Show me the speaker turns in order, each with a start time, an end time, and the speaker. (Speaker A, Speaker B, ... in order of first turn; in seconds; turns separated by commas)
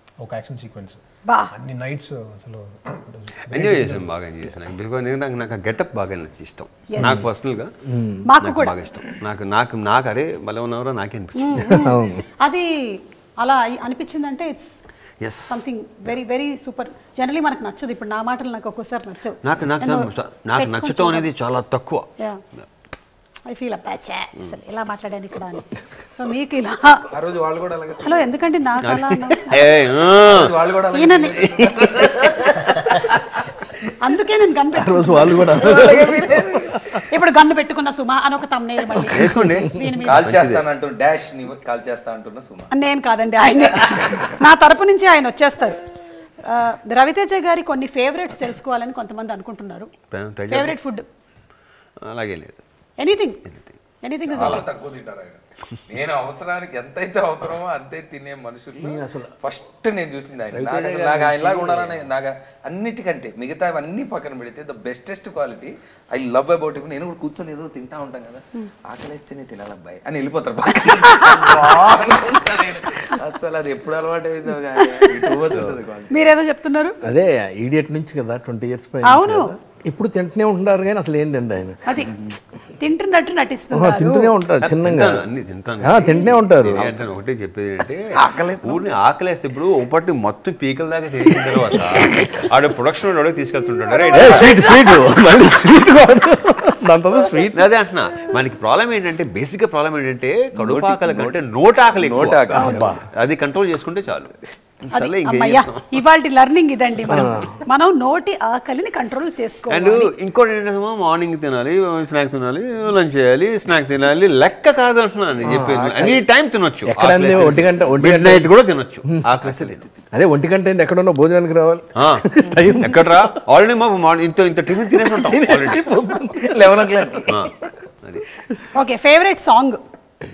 Speaker A: 0.2-1.0, Speaker B: 1.3-1.5, Speaker A: 1.5-4.1, Speaker C: 3.4-7.7, Speaker B: 6.9-7.2, Speaker D: 7.9-8.2, Speaker B: 8.3-8.7, Speaker C: 8.4-11.8, Speaker B: 11.4-14.7, Speaker D: 11.6-12.2, Speaker C: 15.2-16.1, Speaker B: 15.5-21.3, Speaker C: 19.4-22.6, Speaker B: 23.5-27.1, Speaker E: 27.1-28.3, Speaker B: 28.0-29.6, Speaker C: 28.8-30.5, Speaker E: 30.2-32.7, Speaker B: 30.9-31.5, Speaker C: 31.5-32.5, Speaker B: 34.0-35.5, Speaker D: 34.8-37.0, Speaker E: 35.6-36.8, Speaker B: 37.0-40.2, Speaker C: 39.1-40.6, Speaker D: 39.1-39.9, Speaker E: 40.1-42.7, Speaker B: 42.7-45.8, Speaker B: 46.5-49.9, Speaker C: 50.1-50.8, Speaker B: 50.5-51.0, Speaker C: 52.0-52.6, Speaker B: 53.0-53.4, Speaker C: 53.4-53.7, Speaker B: 54.0-54.7, Speaker E: 54.3-76.2, Speaker C: 54.4-54.6, Speaker D: 58.8-59.3, Speaker D: 60.5-62.0, Speaker B: 71.2-71.5, Speaker D: 71.6-72.1, Speaker B: 76.1-77.0, Speaker D: 77.0-82.0, Speaker B: 79.0-79.5, Speaker B: 81.8-82.1, Speaker B: 82.8-84.3, Speaker D: 83.7-85.3, Speaker C: 84.6-94.8, Speaker D: 85.8-86.9, Speaker E: 86.7-86.9, Speaker E: 88.1-88.8, Speaker D: 91.3-92.3, Speaker D: 94.1-97.7, Speaker C: 97.5-106.0, Speaker E: 100.5-103.0, Speaker D: 102.5-103.0, Speaker B: 104.9-110.1, Speaker D: 107.0-107.6, Speaker C: 109.7-119.8, Speaker D: 115.4-116.2, Speaker D: 116.8-118.5, Speaker D: 119.0-123.2, Speaker C: 122.0-125.9, Speaker D: 124.9-126.9, Speaker E: 125.3-127.4, Speaker C: 127.3-128.2, Speaker B: 128.7-129.8